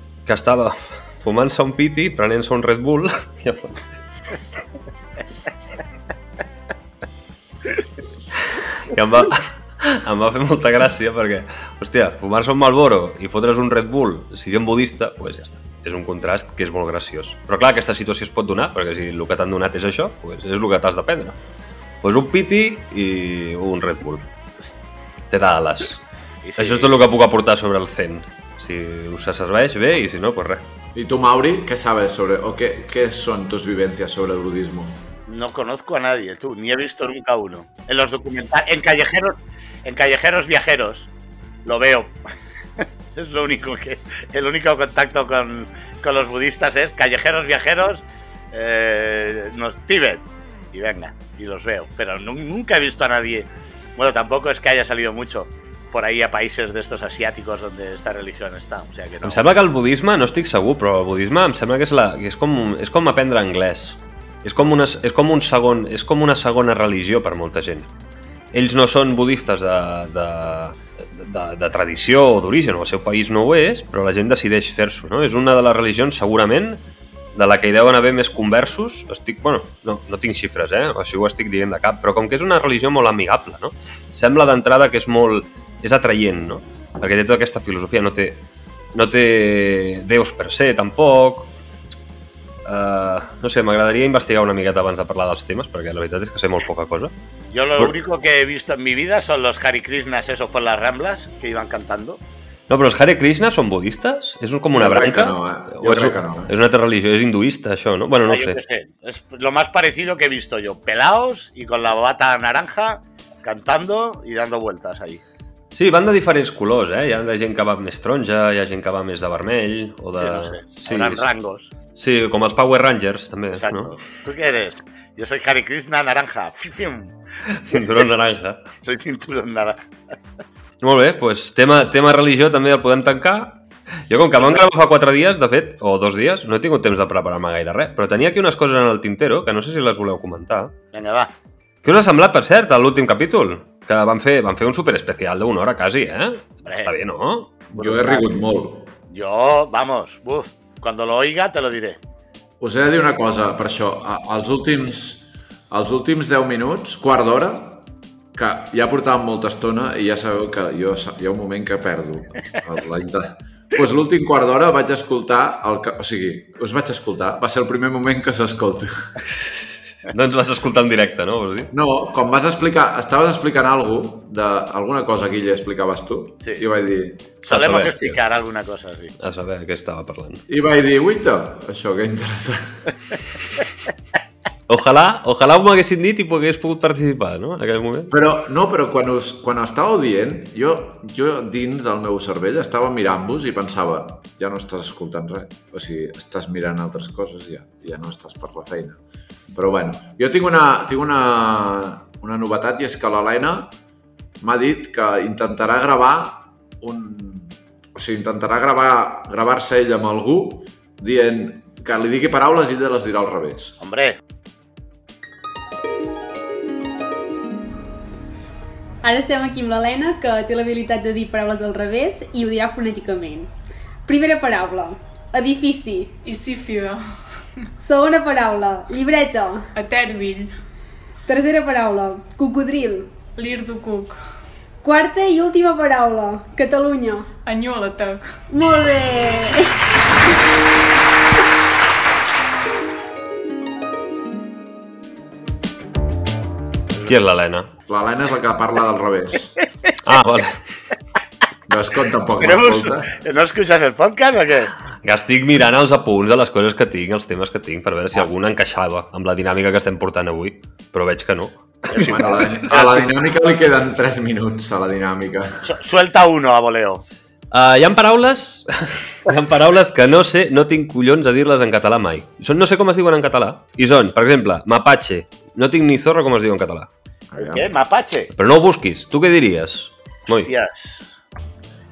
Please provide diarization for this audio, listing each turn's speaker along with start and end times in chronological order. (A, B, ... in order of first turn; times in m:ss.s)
0:00.2-0:03.8 A
0:08.4-0:21.4 A
0:22.0-0:24.3 A
0:25.3-0:26.0 A
0:26.4-0:27.0 B
0:26.6-0:30.7 A
0:30.9-0:35.0 C
0:35.3-0:41.1 B
0:41.6-0:42.1 B
0:42.8-0:59.6 B
0:59.2-1:07.9 A
1:08.5-1:16.8 A
1:17.3-1:31.5 A
1:32.6-1:37.1 A
1:37.5-1:42.2 B
1:42.7-1:48.6 A
1:44.7-1:46.5 C
1:48.3-1:55.2 B
1:55.7-2:01.3 A
2:00.2-2:01.7 B
2:02.0-2:03.9 A
2:03.5-2:07.1 B
2:07.4-2:08.6 A
2:08.8-2:09.8 B
2:10.8-2:20.7 A
2:20.9-2:21.3 B
2:21.8-2:27.6 A
2:26.6-2:26.9 B
2:27.7-2:28.9 C
2:27.8-2:28.3 B
2:29.1-2:32.0 B
2:32.6-2:49.1 C
2:49.2-2:51.7 A
2:51.7-2:58.2 C
2:57.4-2:59.1 B
2:57.4-2:57.9 A
2:59.2-3:00.4 A
3:00.5-3:02.9 C
3:04.7-3:08.1 A
3:08.1-3:19.0 C
3:19.5-3:23.7 C
3:24.4-3:33.8 C
3:33.8-3:34.2 B
3:39.0-3:43.5 D
3:44.0-3:46.1 D
3:46.2-3:47.0 E
3:47.8-3:49.7 D
3:49.7-3:50.5 E
3:51.2-3:53.1 D
3:53.4-3:54.2 E
3:54.8-3:57.3 D
3:57.4-3:58.3 E
3:58.5-3:59.8 D
4:07.0-4:07.7 A
4:07.9-4:09.6 C
4:10.0-4:10.6 A
4:11.7-4:13.1 C
4:12.4-4:14.7 B
4:15.0-4:22.1 A
4:21.9-4:23.1 B
4:22.0-4:25.7 C
4:25.6-4:27.0 B
4:27.5-4:36.9 A
4:37.3-4:37.7 C
4:37.4-4:38.3 B
4:38.4-4:40.5 A
4:40.3-4:41.1 B